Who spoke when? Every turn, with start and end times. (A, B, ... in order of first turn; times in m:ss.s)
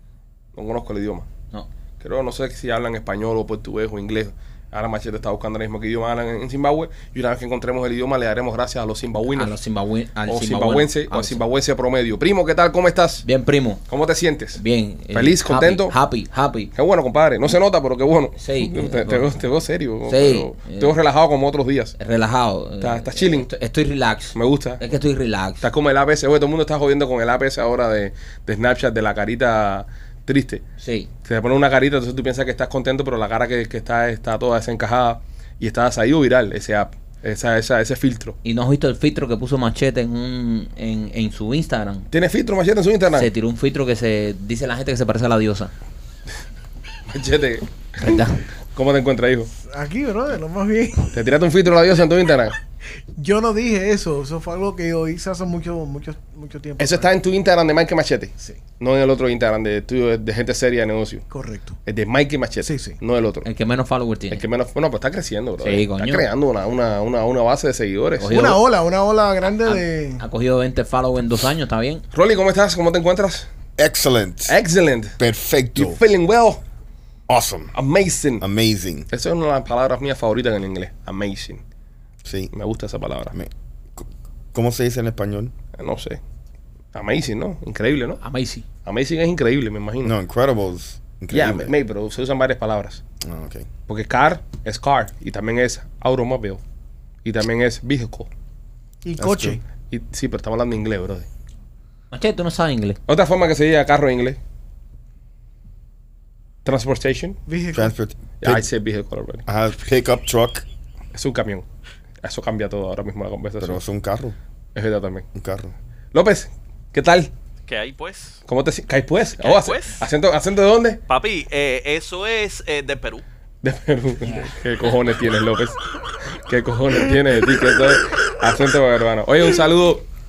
0:00.6-0:01.3 A
0:02.0-0:09.6 A
0:09.4-0:11.4 B
0:10.3-0:13.2 A
0:13.2-0:13.8 B
0:13.9-0:14.6 A
0:14.6-0:16.7 B
0:15.1-0:16.0 A
0:16.8-0:22.0 A
0:18.4-0:19.4 B
0:20.1-0:20.9 B
0:22.0-0:25.6 B
0:22.8-0:23.5 A
0:24.4-0:24.8 A
0:25.6-0:30.6 A
0:30.8-0:31.1 B
0:31.2-0:38.4 A
0:38.4-0:42.0 B
0:42.1-0:43.3 A
0:43.2-0:45.7 B
0:47.1-0:48.2 A
0:48.0-0:48.4 B
0:48.8-0:49.5 A
0:49.6-0:51.1 C
0:51.1-0:52.6 A
0:53.2-0:57.1 C
0:56.8-1:01.3 A
1:01.3-1:01.8 C
1:01.9-1:03.5 A
1:02.7-1:03.0 C
1:03.4-1:04.4 B
1:04.3-1:08.5 A
1:05.6-1:06.3 B
1:08.2-1:08.6 B
1:08.3-1:10.2 C
1:09.6-1:12.0 B
1:12.1-1:13.5 A
1:13.8-1:14.5 D
1:14.5-1:15.2 A
1:15.2-1:16.0 D
1:15.8-1:16.6 A
1:17.3-1:17.7 D
1:17.7-1:18.4 A
1:18.4-1:19.1 D
1:19.1-1:21.6 A
1:22.2-1:22.5 D
1:22.5-1:23.3 A
1:23.3-1:25.5 D
1:25.8-1:26.2 A
1:27.0-1:28.2 A
1:28.2-1:28.6 B
1:28.9-1:30.1 A
1:30.0-1:31.7 D
1:31.3-1:33.0 A
1:33.2-1:33.7 D
1:33.9-1:36.6 A
1:37.2-1:38.3 A
1:39.0-1:39.6 C
1:39.2-1:39.6 D
1:39.9-1:41.3 A
1:42.1-1:43.0 B
1:43.1-1:44.4 A
1:46.6-1:47.4 A
1:47.5-1:47.9 C
1:47.7-1:48.6 D
1:48.4-1:49.4 A
1:49.5-1:50.6 D
1:51.1-1:51.6 A
1:52.2-1:53.8 A
1:53.6-1:54.4 D
1:54.8-1:55.2 A
1:55.4-1:55.7 D
1:56.1-1:57.3 A
1:57.7-1:58.4 E
1:58.5-2:01.0 A
1:59.4-2:00.0 E
2:01.1-2:03.2 E
2:03.6-2:05.8 A
2:06.5-2:10.0 A